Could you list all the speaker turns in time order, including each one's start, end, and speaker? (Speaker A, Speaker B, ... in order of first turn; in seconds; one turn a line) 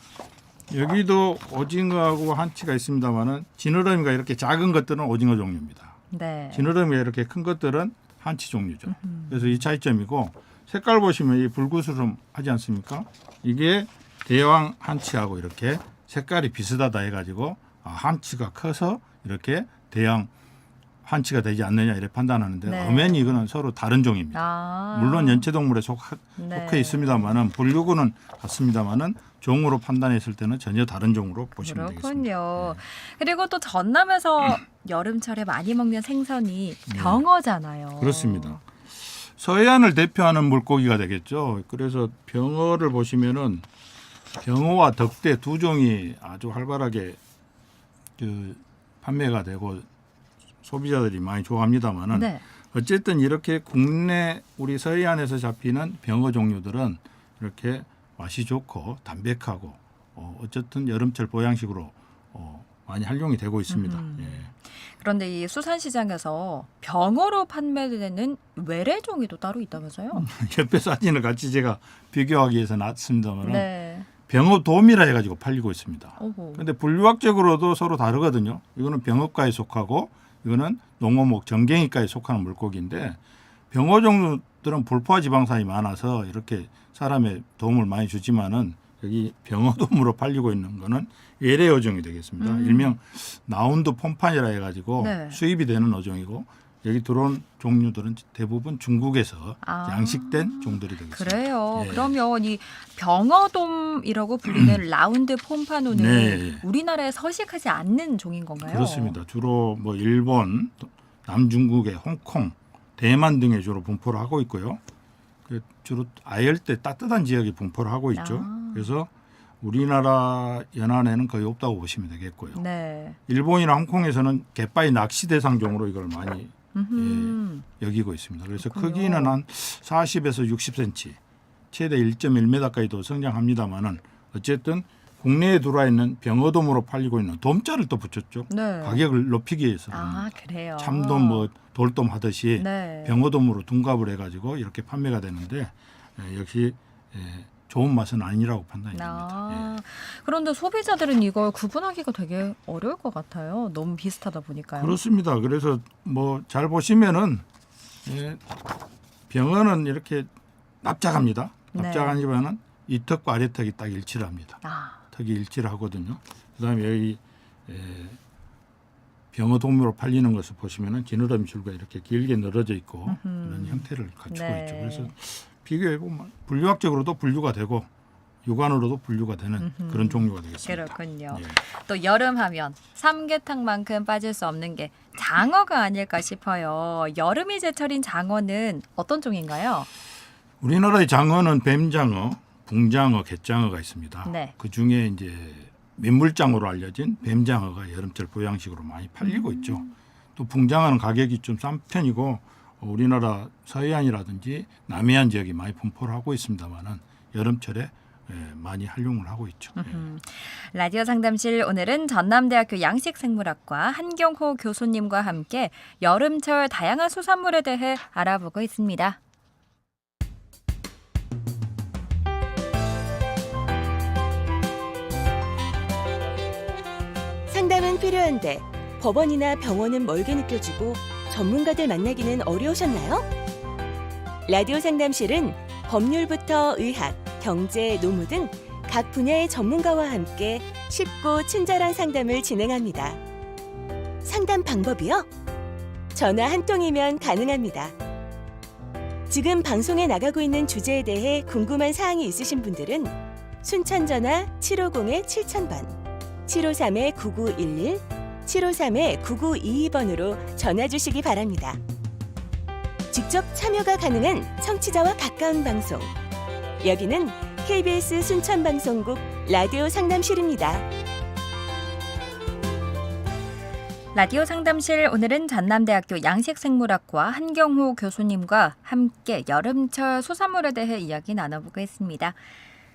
Speaker A: 0.7-6.0
Speaker B: 6.1-6.7
Speaker A: 6.5-20.3
Speaker B: 8.9-9.6
Speaker A: 21.0-32.8
Speaker B: 22.6-23.4
Speaker B: 24.3-25.5
Speaker B: 26.4-27.4
Speaker B: 31.6-38.6
Speaker A: 36.9-37.2
Speaker A: 38.0-38.6
Speaker A: 39.4-43.7
Speaker A: 44.4-47.2
Speaker A: 48.2-49.9
Speaker A: 50.6-64.5
Speaker B: 52.1-52.4
Speaker B: 63.7-70.3
Speaker A: 70.1-73.7
Speaker B: 73.4-74.1
Speaker A: 74.3-83.2
Speaker B: 76.2-76.6
Speaker A: 83.7-102.2
Speaker B: 92.4-93.0
Speaker B: 95.0-95.4
Speaker B: 99.6-109.2
Speaker A: 104.5-104.8
Speaker A: 105.9-106.6
Speaker A: 108.6-114.8
Speaker A: 115.5-119.1
Speaker B: 118.2-118.9
Speaker A: 119.6-122.6
Speaker B: 122.5-123.2
Speaker A: 123.3-131.2
Speaker B: 126.7-127.7
Speaker B: 128.6-129.4
Speaker A: 131.7-149.7
Speaker B: 138.5-139.0
Speaker B: 139.9-141.5
Speaker B: 142.6-143.2
Speaker B: 148.9-155.0
Speaker A: 154.8-157.4
Speaker A: 158.1-158.6
Speaker A: 159.3-160.3
Speaker A: 160.8-164.6
Speaker B: 161.7-162.2
Speaker B: 164.6-165.0
Speaker A: 165.1-168.2
Speaker A: 169.3-177.9
Speaker B: 173.1-175.1
Speaker A: 178.4-181.6
Speaker B: 179.6-189.9
Speaker A: 190.6-210.1
Speaker B: 194.2-194.5
Speaker B: 199.2-199.9
Speaker B: 209.8-219.2
Speaker C: 227.5-233.3
Speaker C: 234.5-243.2
Speaker C: 244.2-245.3
Speaker C: 246.2-247.9
Speaker C: 249.3-255.9
Speaker C: 256.5-261.8
Speaker C: 263.1-266.1
Speaker C: 266.8-270.9
Speaker B: 274.1-282.4